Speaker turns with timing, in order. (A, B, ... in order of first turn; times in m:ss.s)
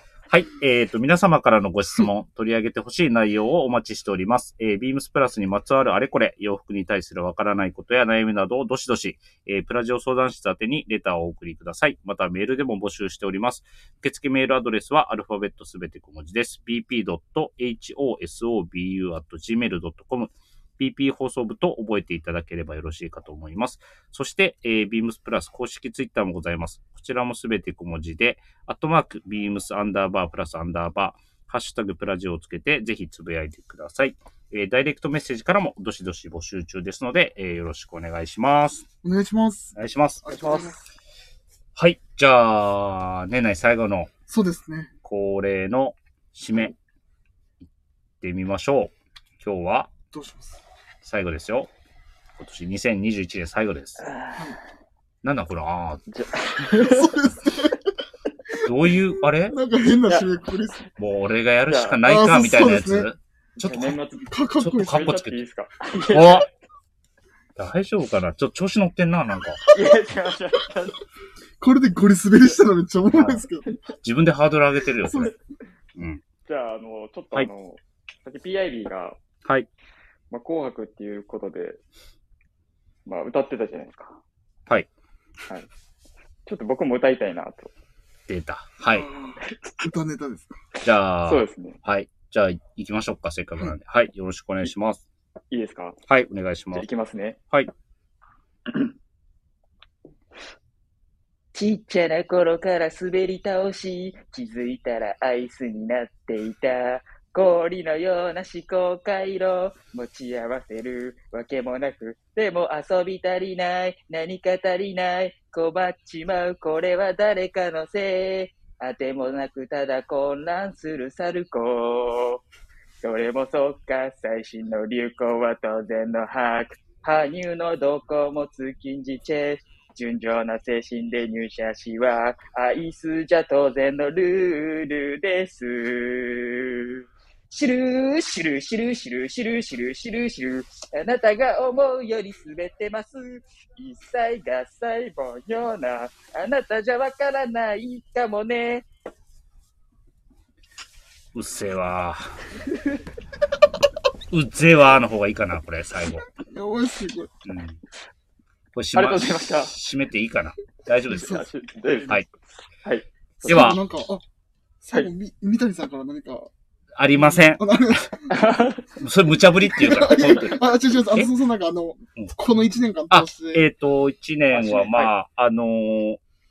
0:00.3-0:38.9 A
0:39.0-0:40.8 B
0:39.8-0:40.2 A
0:40.3-0:40.8 C
0:41.8-0:44.1 A
0:44.3-0:44.9 B
0:45.0-0:46.8 A
0:48.2-0:49.9 A
0:50.1-0:50.6 B
0:51.0-0:51.7 A
0:52.4-0:54.0 A
0:54.0-0:54.6 C
0:55.2-0:56.0 A
0:56.1-0:57.2 C
0:56.8-0:57.8 B
0:58.6-0:59.6 A
0:59.5-1:00.8 B
1:00.1-1:00.9 C
1:01.0-1:04.0 A
1:01.7-1:02.0 C
1:02.0-1:03.1 B
1:03.6-1:06.5 C
1:04.3-1:05.1 B
1:04.6-1:05.4 A
1:06.1-1:06.5 A
1:07.6-1:09.6 A
1:09.7-1:11.0 C
1:11.6-1:13.7 B
1:13.1-1:13.4 A
1:14.0-1:15.3 A
1:15.1-1:15.3 B
1:16.0-1:16.2 A
1:16.4-1:19.2 C
1:20.3-1:21.8 C
1:23.1-1:24.2 C
1:26.5-1:27.7 C
1:28.3-1:29.1 A
1:28.9-1:30.6 B
1:29.4-1:29.9 C
1:30.8-1:35.0 A
1:31.3-1:31.8 C
1:35.5-1:36.0 C
1:36.1-1:36.9 A
1:36.7-1:37.4 C
1:41.5-2:02.4 C
2:03.0-2:28.8 C
2:31.3-2:32.5 A
2:32.7-2:33.0 C
2:34.3-2:36.3 A
2:36.3-2:37.3 B
2:37.4-2:37.8 A
2:38.8-2:41.4 A
2:39.0-2:39.8 C
2:41.1-2:41.5 B
2:41.1-2:43.8 C
2:43.4-2:44.2 B
2:43.5-2:43.8 A
2:44.8-2:46.5 B
2:47.0-2:48.1 A
2:47.1-2:48.4 B
2:48.3-2:48.9 C
2:49.0-2:51.3 A
2:49.6-2:53.6 B
2:53.1-2:56.2 A
2:54.5-2:55.1 C